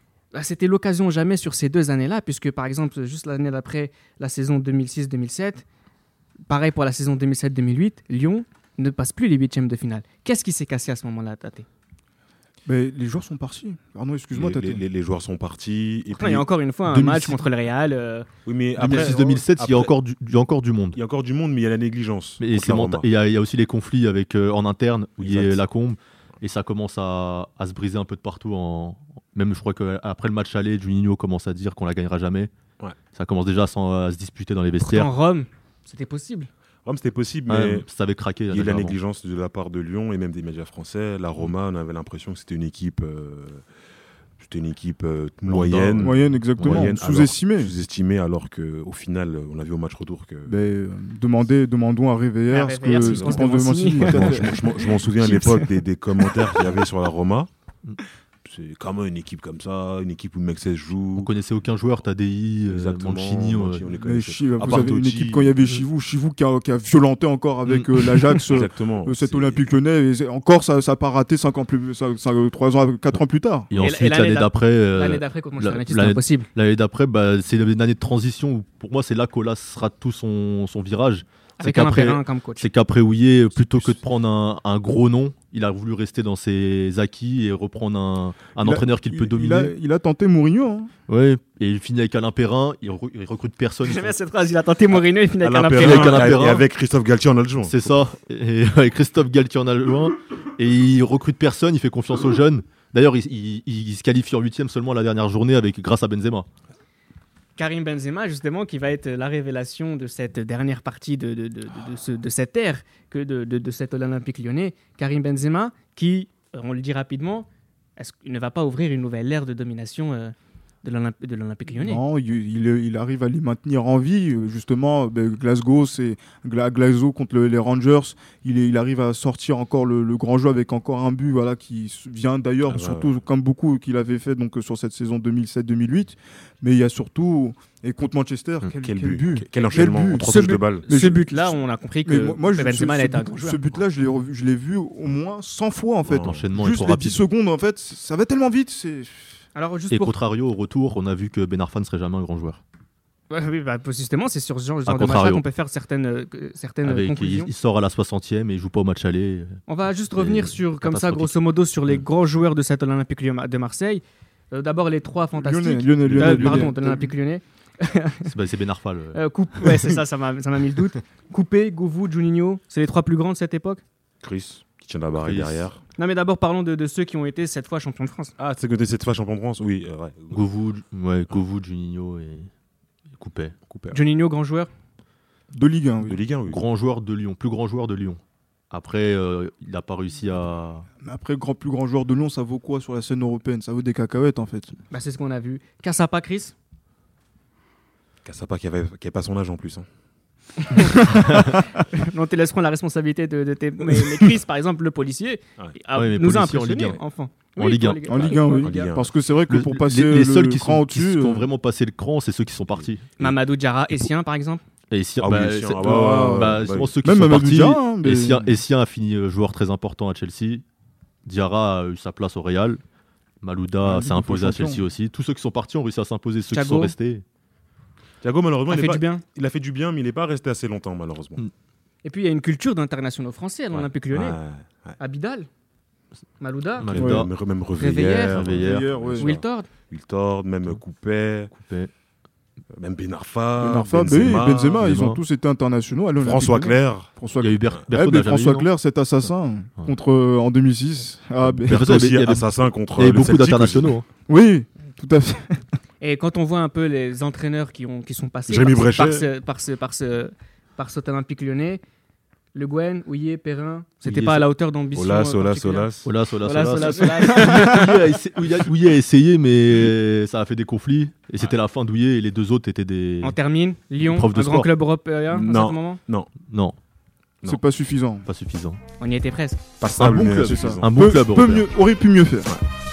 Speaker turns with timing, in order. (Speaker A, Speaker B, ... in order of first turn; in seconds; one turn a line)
Speaker A: 0.3-5.6
Speaker A: 6.5-11.7
Speaker B: 12.7-14.8
Speaker C: 14.3-16.5
Speaker A: 16.1-18.3
Speaker D: 16.9-17.4
Speaker C: 18.5-19.9
Speaker D: 18.8-21.0
Speaker A: 18.9-19.2
Speaker C: 20.9-23.1
Speaker D: 22.4-32.5
Speaker C: 25.2-25.6
Speaker D: 33.1-35.1
Speaker A: 34.8-36.5
Speaker C: 36.9-37.9
Speaker D: 37.5-39.0
Speaker C: 38.5-43.6
Speaker C: 44.4-50.5
Speaker D: 45.5-46.9
Speaker B: 46.0-47.7
Speaker B: 50.5-54.5
Speaker A: 52.5-55.7
Speaker C: 52.9-57.5
Speaker C: 58.5-61.3
Speaker D: 61.2-63.9
Speaker C: 62.7-65.5
Speaker B: 64.0-73.7
Speaker D: 67.7-68.4
Speaker C: 68.5-69.6
Speaker D: 73.7-89.7
Speaker A: 73.8-76.5
Speaker A: 81.6-82.7
Speaker C: 83.6-83.9
Speaker B: 88.6-90.9
Speaker D: 91.1-94.2
Speaker A: 93.8-96.4
Speaker C: 95.4-97.9
Speaker D: 95.8-96.7
Speaker D: 97.7-106.5
Speaker A: 107.6-122.0
Speaker B: 121.8-149.2
Speaker C: 132.7-133.1
Speaker C: 138.8-140.9
Speaker A: 139.6-143.6
Speaker C: 146.1-146.5
Speaker D: 146.2-147.2
Speaker A: 149.6-150.2
Speaker D: 149.9-152.6
Speaker A: 153.3-157.5
Speaker D: 154.9-155.4
Speaker D: 156.8-159.6
Speaker A: 159.7-168.3
Speaker D: 160.2-161.4
Speaker B: 165.4-167.1
Speaker C: 166.1-166.7
Speaker D: 168.2-169.2
Speaker A: 169.1-173.8
Speaker C: 174.2-175.8
Speaker D: 175.2-175.7
Speaker A: 176.0-178.3
Speaker C: 178.4-180.4
Speaker D: 180.3-182.5
Speaker D: 183.1-183.6
Speaker C: 183.7-184.0
Speaker A: 183.9-184.7
Speaker B: 185.5-186.2
Speaker C: 186.1-186.6
Speaker D: 186.5-190.9
Speaker B: 191.0-194.8
Speaker A: 194.9-196.6
Speaker C: 198.2-199.9
Speaker A: 200.7-208.9
Speaker B: 201.2-201.6
Speaker D: 205.9-207.0
Speaker D: 207.6-208.0
Speaker B: 208.1-211.5
Speaker C: 208.2-209.1
Speaker D: 209.5-213.4
Speaker A: 213.2-214.6
Speaker D: 214.9-220.6
Speaker C: 215.2-216.9
Speaker B: 215.8-218.6
Speaker D: 221.2-222.8
Speaker D: 223.4-227.2
Speaker B: 223.8-224.8
Speaker A: 226.5-226.9
Speaker C: 228.2-231.4
Speaker A: 228.7-229.2
Speaker A: 232.0-234.4
Speaker C: 233.7-235.0
Speaker A: 235.0-235.5
Speaker A: 236.4-237.0
Speaker D: 236.8-237.3
Speaker C: 236.8-241.5
Speaker B: 237.0-237.3
Speaker A: 237.8-238.6
Speaker D: 238.3-238.9
Speaker B: 238.6-239.3
Speaker A: 239.2-239.7
Speaker D: 241.5-241.9
Speaker C: 242.7-244.9
Speaker B: 243.6-252.0
Speaker D: 244.8-245.2
Speaker C: 246.2-247.1
Speaker D: 247.4-248.7
Speaker C: 251.4-253.9
Speaker D: 251.7-254.1
Speaker B: 254.3-255.6
Speaker A: 256.0-261.8
Speaker C: 258.5-259.3
Speaker A: 262.5-265.9
Speaker D: 264.1-264.5
Speaker C: 264.9-266.1
Speaker D: 266.0-273.4
Speaker A: 266.4-268.0
Speaker A: 273.2-276.0
Speaker D: 274.0-274.7
Speaker C: 275.3-276.3
Speaker D: 276.5-276.8
Speaker B: 277.4-278.3
Speaker D: 278.2-278.8
Speaker A: 279.0-279.6
Speaker C: 279.8-280.9
Speaker D: 280.0-281.7
Speaker B: 280.4-282.5